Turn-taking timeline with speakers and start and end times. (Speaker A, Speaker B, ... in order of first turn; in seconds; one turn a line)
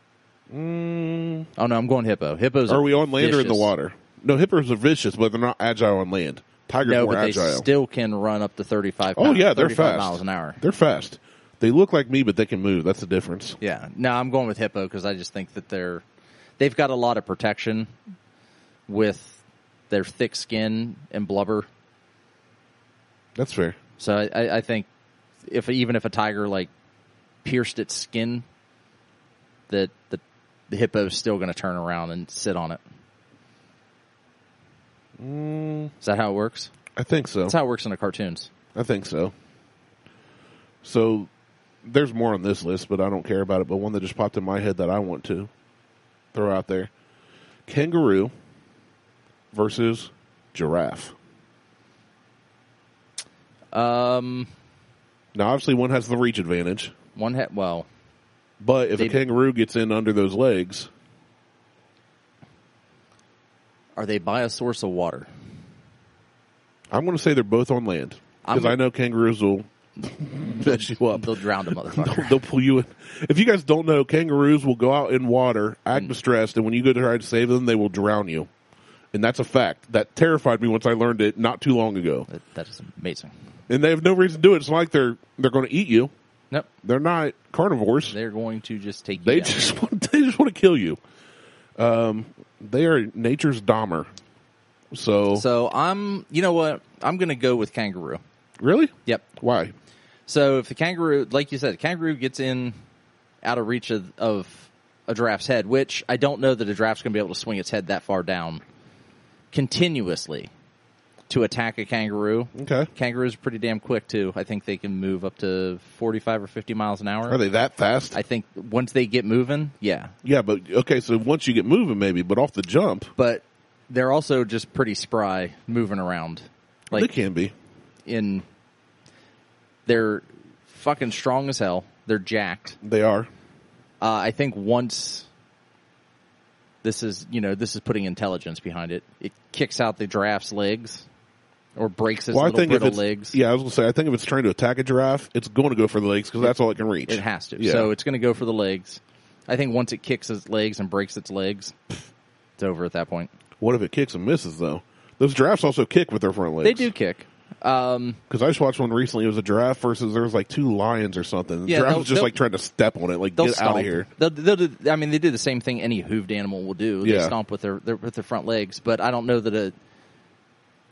Speaker A: 0.5-1.5
Speaker B: 1.6-3.7
Speaker A: 2.7-7.7
Speaker B: 6.8-10.6
Speaker A: 9.2-13.6
Speaker B: 13.6-16.0
Speaker B: 16.6-17.9
Speaker B: 18.9-21.7
Speaker A: 23.4-23.8
Speaker B: 24.0-24.9
Speaker B: 25.4-26.7
Speaker B: 27.4-28.4
Speaker B: 29.7-32.8
Speaker A: 35.2-35.9
Speaker B: 36.0-36.7
Speaker A: 37.0-37.5
Speaker B: 37.5-38.5
Speaker A: 38.8-39.3
Speaker A: 40.8-41.3
Speaker A: 41.8-45.5
Speaker A: 46.3-46.9
Speaker A: 47.7-48.3
Speaker A: 49.5-51.1
Speaker B: 53.7-54.5
Speaker A: 55.4-56.9
Speaker B: 57.1-57.9
Speaker A: 58.6-60.9
Speaker B: 64.0-65.3
Speaker A: 66.9-71.3
Speaker B: 68.4-68.8
Speaker B: 70.6-72.4
Speaker A: 71.8-78.5
Speaker A: 79.1-82.3
Speaker B: 82.3-83.3
Speaker A: 83.7-86.1
Speaker A: 86.8-88.2
Speaker B: 88.1-89.6
Speaker A: 89.2-91.0
Speaker A: 91.8-94.1
Speaker A: 94.9-95.5
Speaker B: 95.3-98.2
Speaker A: 98.6-99.7
Speaker B: 100.3-102.8
Speaker B: 103.4-108.6
Speaker B: 109.5-110.5
Speaker B: 111.3-117.4
Speaker A: 112.5-112.9
Speaker A: 117.3-118.2
Speaker B: 118.1-120.1
Speaker A: 120.2-123.1
Speaker B: 123.2-127.1
Speaker A: 126.9-127.5
Speaker B: 128.1-128.4
Speaker B: 129.9-132.8
Speaker A: 132.8-133.3
Speaker B: 134.0-135.3
Speaker B: 136.8-141.1
Speaker B: 141.8-143.4
Speaker A: 142.3-147.9
Speaker B: 146.4-152.0
Speaker B: 152.6-153.3
Speaker A: 153.6-156.9
Speaker B: 156.6-158.2
Speaker A: 158.3-164.1
Speaker B: 161.7-162.4
Speaker B: 163.4-169.8
Speaker A: 167.0-167.4